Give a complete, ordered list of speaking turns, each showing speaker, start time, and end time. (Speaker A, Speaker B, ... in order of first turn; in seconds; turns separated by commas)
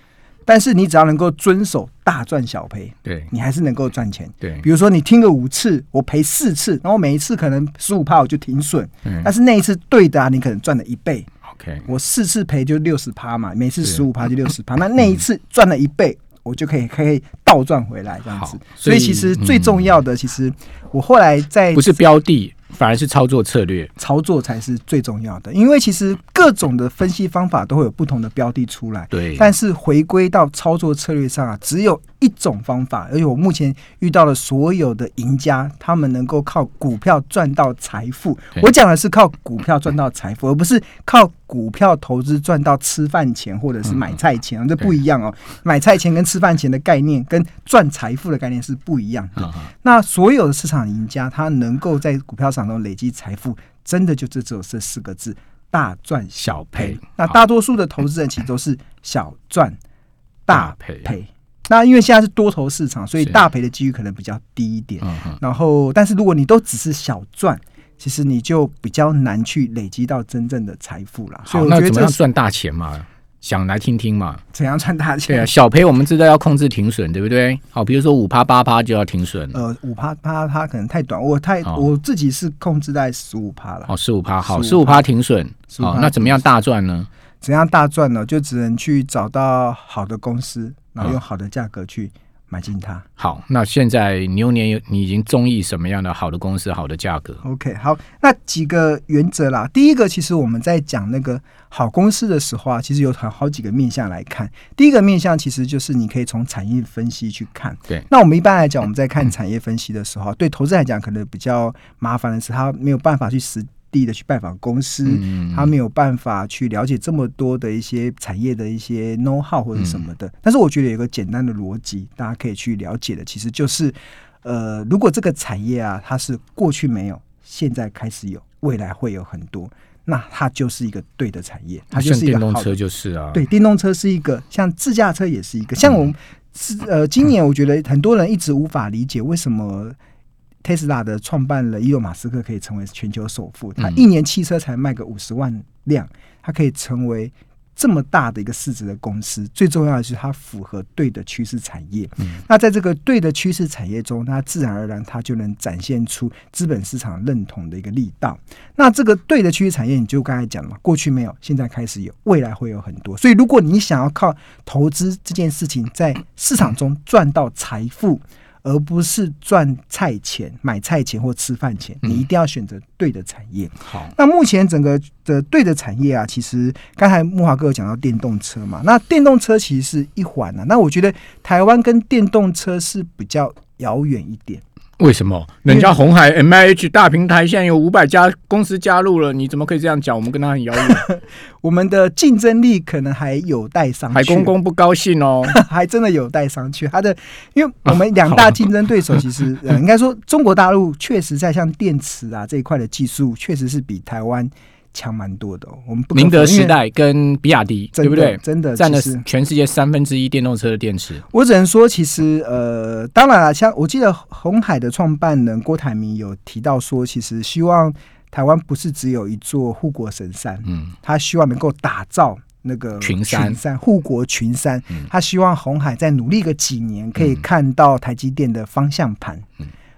Speaker A: 0.5-11.3, Speaker B: 11.5-11.8, Speaker A: 11.8-21.9, Speaker B: 18.3-19.8, Speaker B: 21.7-23.9, Speaker A: 24.0-59.8, Speaker B: 29.1-29.5, Speaker B: 49.4-49.7, Speaker B: 56.4-57.4, Speaker A: 60.5-72.2, Speaker B: 60.5-61.1, Speaker B: 65.0-65.4, Speaker B: 71.5-74.4, Speaker A: 74.5-75.5, Speaker B: 75.3-79.6, Speaker A: 79.5-83.9, Speaker B: 83.9-87.1, Speaker A: 84.4-85.0, Speaker A: 85.7-86.4, Speaker A: 87.4-93.0, Speaker B: 93.2-97.4, Speaker A: 97.4-132.8, Speaker B: 115.1-115.7, Speaker B: 131.9-133.4, Speaker A: 133.3-140.0, Speaker A: 140.6-184.6, Speaker B: 173.9-174.1, Speaker B: 185.0-191.1, Speaker A: 185.7-185.9, Speaker A: 190.8-194.5, Speaker B: 194.1-195.6, Speaker A: 195.5-206.8, Speaker B: 197.9-198.6, Speaker B: 206.1-211.2, Speaker A: 207.9-209.2, Speaker A: 211.3-229.5, Speaker B: 220.7-220.9, Speaker B: 223.0-223.6